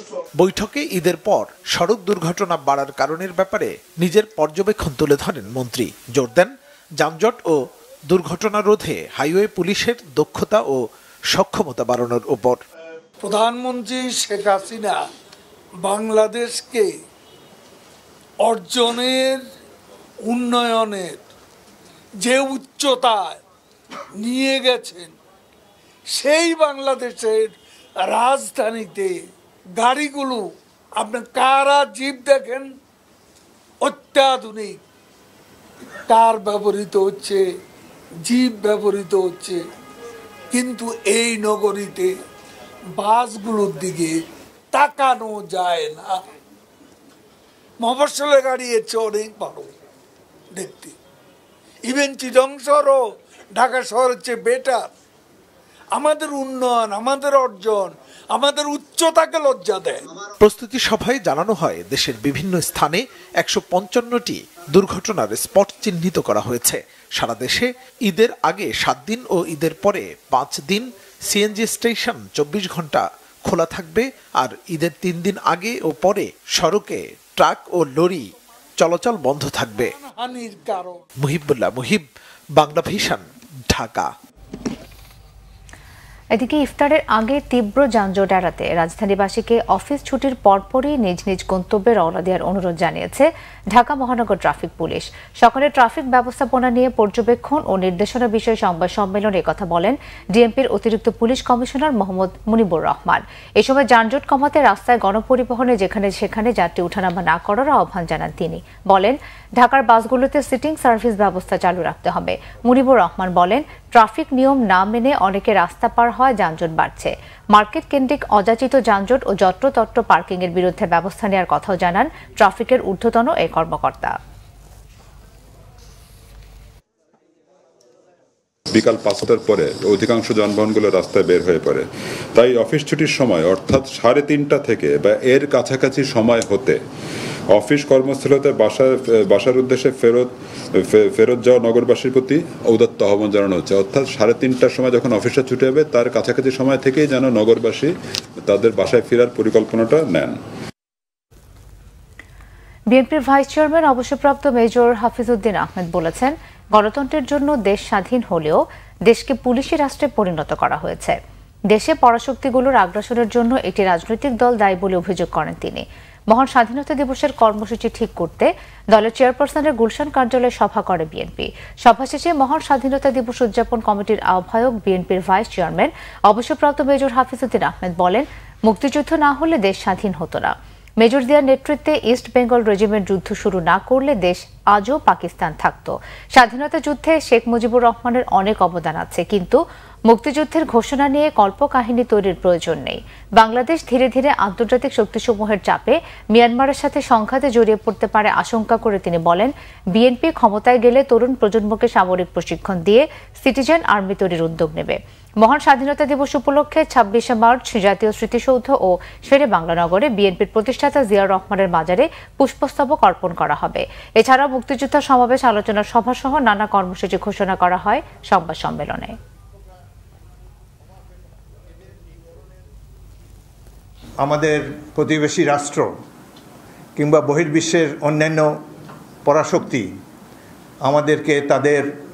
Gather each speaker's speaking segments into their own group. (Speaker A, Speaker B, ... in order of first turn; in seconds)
Speaker A: 0.4-12.6, 60.4-78.3, 78.8-79.9, 81.2-84.1
Speaker B: 13.2-15.0, 15.8-16.9, 18.4-19.4, 20.2-21.2, 22.2-23.4, 24.2-25.1, 26.1-29.2, 29.8-32.7, 33.8-34.8, 36.1-37.4, 38.2-39.6, 40.5-42.1, 43.0-44.2, 44.7-46.2, 47.8-49.7, 50.5-50.9, 51.9-53.0, 53.5-54.9, 55.9-60.0, 80.0-81.0
Speaker C: 86.3-124.2, 152.9-161.2, 161.7-219.2
Speaker D: 128.7-136.8, 137.5-150.4
Speaker E: 224.2-225.9, 226.9-228.5, 229.2-229.9, 230.8-231.9